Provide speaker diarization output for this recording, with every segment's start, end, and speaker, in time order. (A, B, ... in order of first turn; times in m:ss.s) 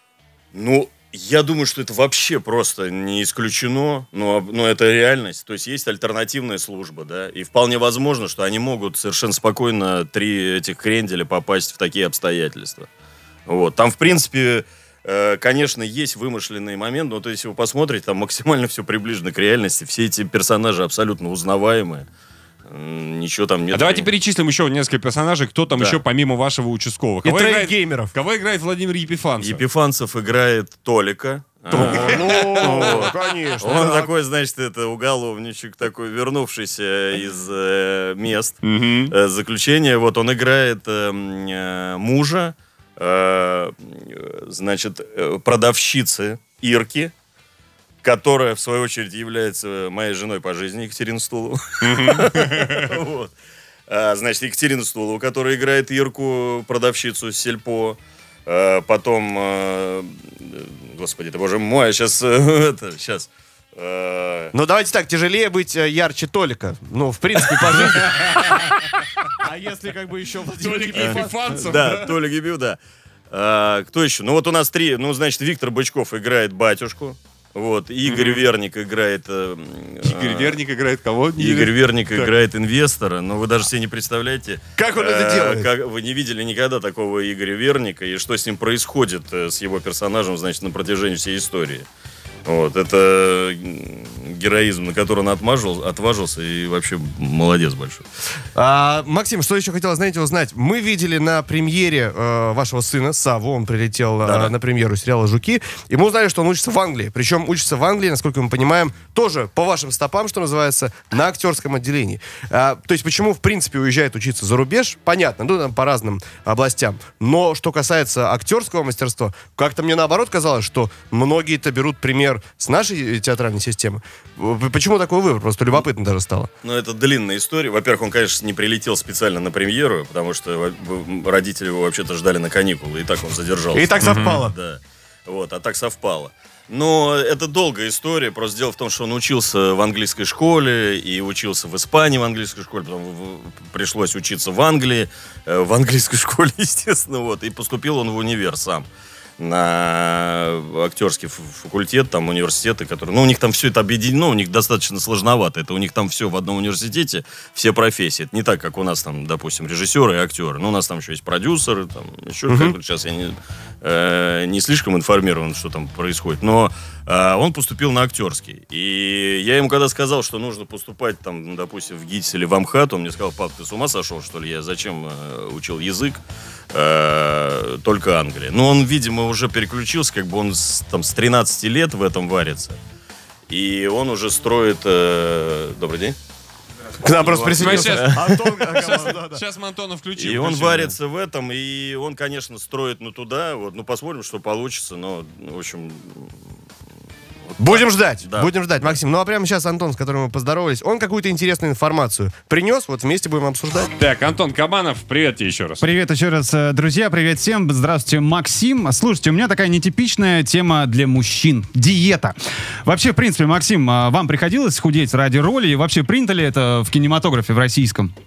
0:00.5-0:12.9 A
0:13.5-0:22.0 A
0:22.7-0:24.1 A
0:23.7-0:29.6 B
0:25.7-0:26.0 A
0:27.2-0:28.1 C
0:29.4-0:47.1 A
0:31.7-0:34.1 C
0:31.7-0:33.1 B
0:38.6-0:39.1 B
0:48.0-0:53.3 A
0:51.8-0:52.8 B
0:53.9-1:04.5 A
1:04.5-1:08.7 C
1:07.9-1:08.5 B
1:09.4-1:12.0 C
1:10.6-1:12.1 B
1:10.9-1:12.8 A
1:13.3-1:20.6 A
1:18.0-1:18.4 B
1:20.0-1:22.3 B
1:21.4-1:31.8 A
1:24.8-1:25.7 C
1:32.4-1:38.0 A
1:38.5-2:06.5 C
1:44.2-1:44.5 A
2:06.6-2:28.9 A
2:13.7-2:14.5 C
2:14.0-2:14.4 B
2:29.4-3:02.8 A
2:42.5-2:42.8 C
3:03.5-3:06.2 A
3:07.0-3:09.4 C
3:07.2-3:09.0 A
3:07.5-3:10.9 B
3:10.2-3:16.3 A
3:17.5-3:19.0 A
3:17.6-3:23.9 C
3:23.9-3:25.8 B
3:25.8-3:38.1 D